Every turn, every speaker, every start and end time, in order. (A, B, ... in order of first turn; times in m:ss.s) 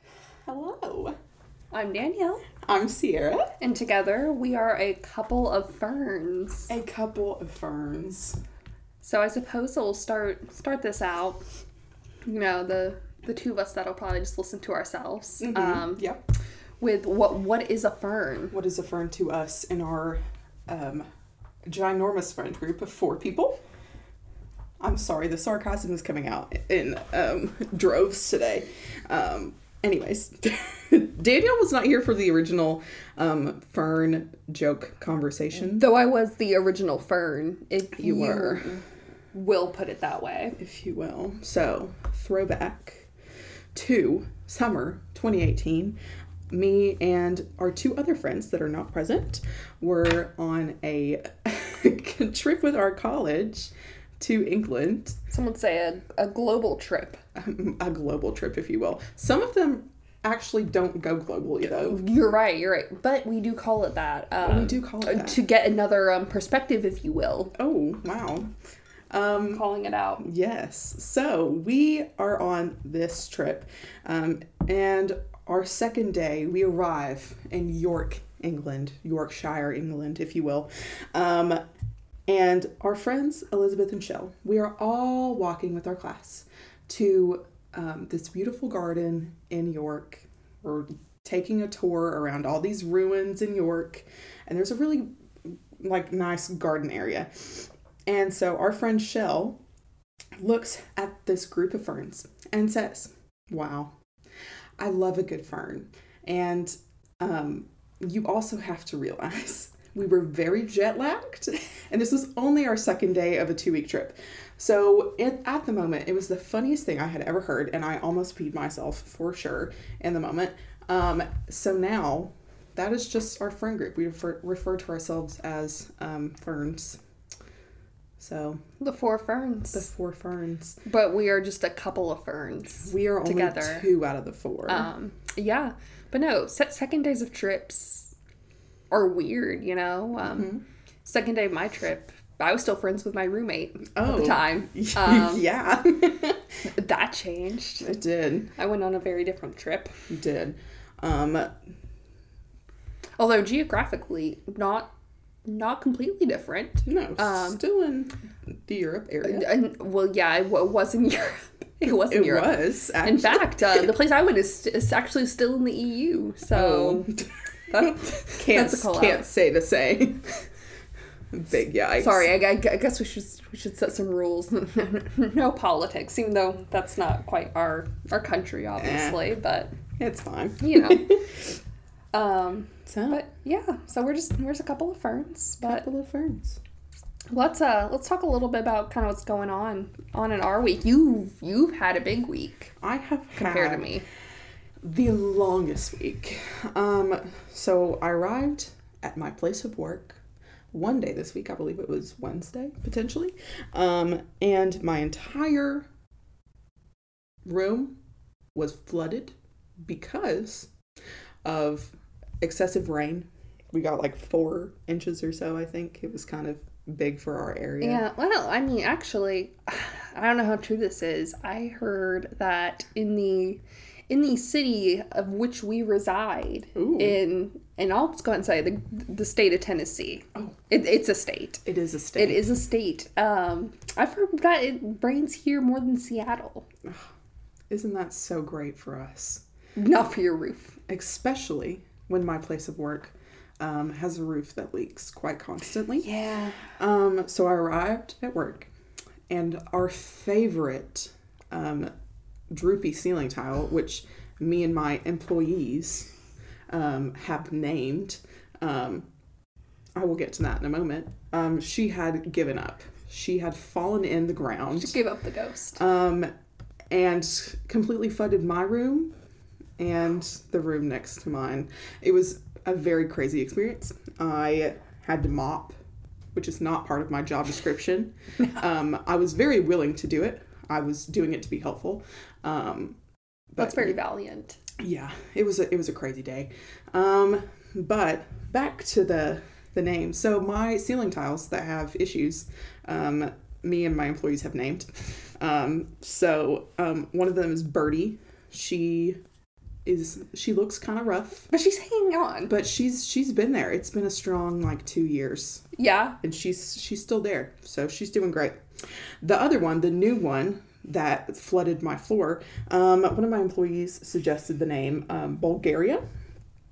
0:00.5-0:01.2 A
0:01.7-0:02.4 B
0:02.6-0:03.5 A
0:03.6-0:06.7 B
0:06.7-0:08.4 A
0:09.0-0:11.4 B
0:12.2-0:16.0 B
0:15.4-0:16.2 A
0:16.8-0:18.5 B
0:18.5-0:21.1 A
0:21.7-0:23.6 A
0:24.8-0:35.9 A
0:35.6-0:40.6 B
0:37.9-0:38.8 A
0:40.6-0:43.1 A
0:43.7-0:46.0 A
0:46.5-0:55.2 A
0:55.3-0:57.2 B
0:57.4-1:02.0 A
1:01.6-1:07.5 B
1:04.4-1:05.4 A
1:07.6-1:08.5 A
1:09.1-1:09.6 A
1:09.5-1:10.2 B
1:10.2-1:21.6 A
1:22.3-1:39.6 A
1:40.4-1:43.9 A
1:44.8-2:07.0 A
2:08.2-2:08.6 A
2:08.8-2:09.9 B
2:09.7-2:10.8 A
2:10.8-2:13.9 B
2:12.8-2:14.9 A
2:14.7-2:18.1 B
2:18.9-2:20.5 B
2:20.2-2:20.6 A
2:21.0-2:25.4 B
2:24.0-2:26.4 A
2:26.7-2:27.9 B
2:27.8-2:28.5 A
2:28.6-2:29.9 B
2:30.1-2:31.5 A
2:33.2-2:34.9 B
2:35.5-2:37.6 B
2:36.8-2:39.6 A
2:39.2-2:47.1 B
2:41.9-2:43.9 A
2:46.5-2:50.4 A
2:47.7-2:49.3 B
2:51.3-2:52.3 A
2:52.0-2:59.8 B
2:58.8-2:59.2 A
2:59.9-3:01.5 A
3:00.6-3:01.2 B
3:02.1-3:05.9 B
3:02.9-3:03.2 A
3:05.6-3:06.6 A
3:07.3-3:12.7 B
3:12.8-3:13.9 A
3:13.3-3:14.0 B
3:14.8-3:20.2 A
3:20.7-3:25.9 A
3:27.4-3:28.0 A
3:28.6-3:30.7 A
3:31.4-3:38.1 A
3:37.8-3:51.6 B
3:46.8-3:47.2 A
3:51.6-3:52.5 A
3:52.2-3:56.7 B
3:57.7-3:59.4 A
3:59.8-4:00.8 B
4:00.9-4:06.1 A
4:06.0-4:06.6 B
4:06.8-4:08.7 A
4:09.3-4:11.9 A
4:12.5-4:16.1 A
4:16.7-4:19.1 A
4:20.0-4:25.0 A
4:24.8-4:25.8 B
4:25.8-4:26.3 A
4:26.9-4:29.1 A
4:29.8-4:35.8 A
4:36.3-4:43.0 A
4:43.6-4:44.0 A
4:43.6-4:44.6 B
4:44.8-4:59.2 A
4:59.8-5:01.5 A
5:01.5-5:02.5 B
5:02.5-5:05.6 A
5:05.8-5:06.2 B
5:06.2-5:08.6 A
5:09.2-5:16.0 A